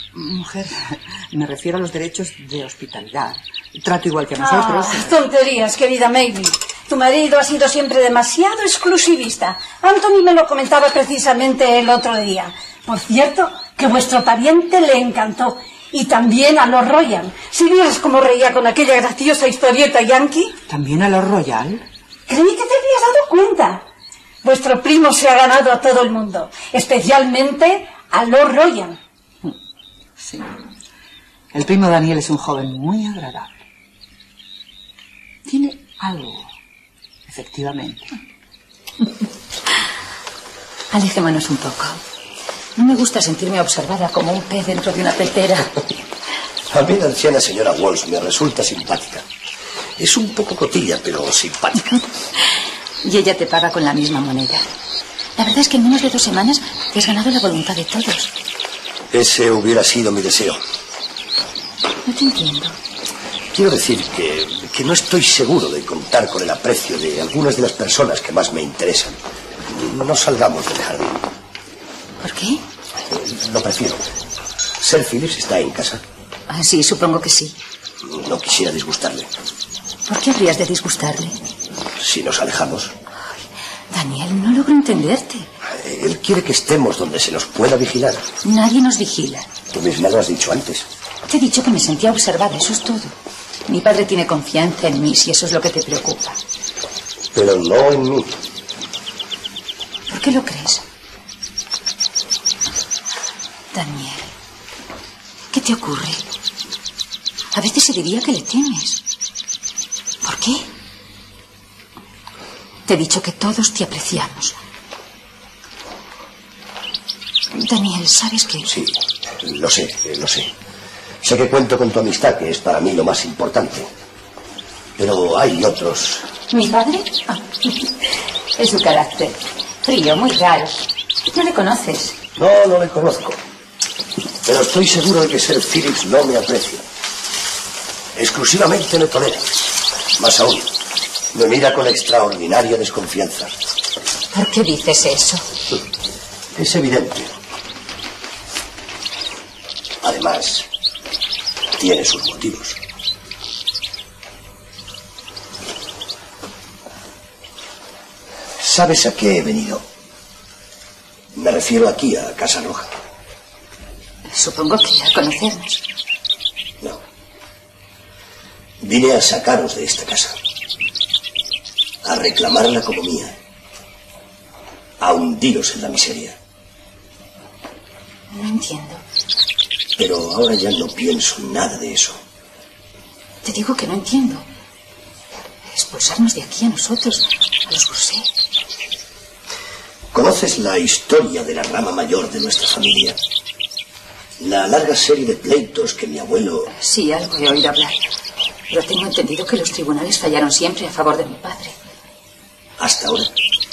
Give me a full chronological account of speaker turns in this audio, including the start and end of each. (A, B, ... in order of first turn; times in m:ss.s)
0:00.1-0:05.2 A
0:04.4-0:20.6 B
0:20.7-0:21.8 A
0:22.3-0:23.8 B
0:24.4-0:29.0 B
0:30.2-0:30.5 A
0:31.5-0:33.6 A
0:35.4-0:36.5 A
0:37.3-0:38.1 A
0:40.9-0:41.8 C
0:41.0-0:42.0 A
0:42.8-0:45.8 C
0:46.7-0:49.2 D
0:50.0-0:51.9 D
0:53.0-0:54.7 C
0:55.4-0:58.3 C
0:59.1-1:00.6 D
1:02.0-1:02.8 C
1:03.5-1:11.3 D
1:12.2-1:12.6 C
1:13.1-1:14.0 D
1:14.8-1:16.0 D
1:16.5-1:17.6 C
1:18.0-1:19.3 D
1:20.0-1:21.4 C
1:22.0-1:22.9 D
1:23.9-1:25.5 C
1:25.6-1:28.3 D
1:28.4-1:29.5 C
1:29.7-1:30.9 D
1:31.3-1:33.1 C
1:33.7-1:36.4 C
1:37.3-1:38.3 D
1:40.1-1:40.8 C
1:43.7-1:44.3 C
1:45.5-1:46.2 C
1:47.5-1:49.0 C
1:50.2-1:50.7 C
1:52.8-1:54.6 C
1:57.5-1:58.7 C
1:58.6-2:00.5 D
2:01.2-2:03.9 D
2:05.0-2:06.3 D
2:06.5-2:07.9 C
2:08.6-2:12.2 C
2:12.4-2:13.4 D
2:14.4-2:16.8 D
2:18.1-2:20.7 D
2:21.3-2:23.6 D
2:24.3-2:25.4 C
2:26.5-2:27.3 D
2:30.0-2:30.7 D
2:31.8-2:32.8 D
2:38.6-2:39.8 D
2:41.3-2:42.9 D
2:44.3-2:45.8 C
2:48.8-2:50.4 D
2:52.0-2:53.4 D
2:55.0-2:56.4 D
2:58.3-2:59.0 C
3:00.0-3:02.2 D
3:03.4-3:04.5 C
3:05.7-3:08.3 C
3:10.1-3:13.2 D
3:14.4-3:16.7 D
3:16.7-3:18.0 C
3:18.7-3:21.8 C
3:22.8-3:23.3 D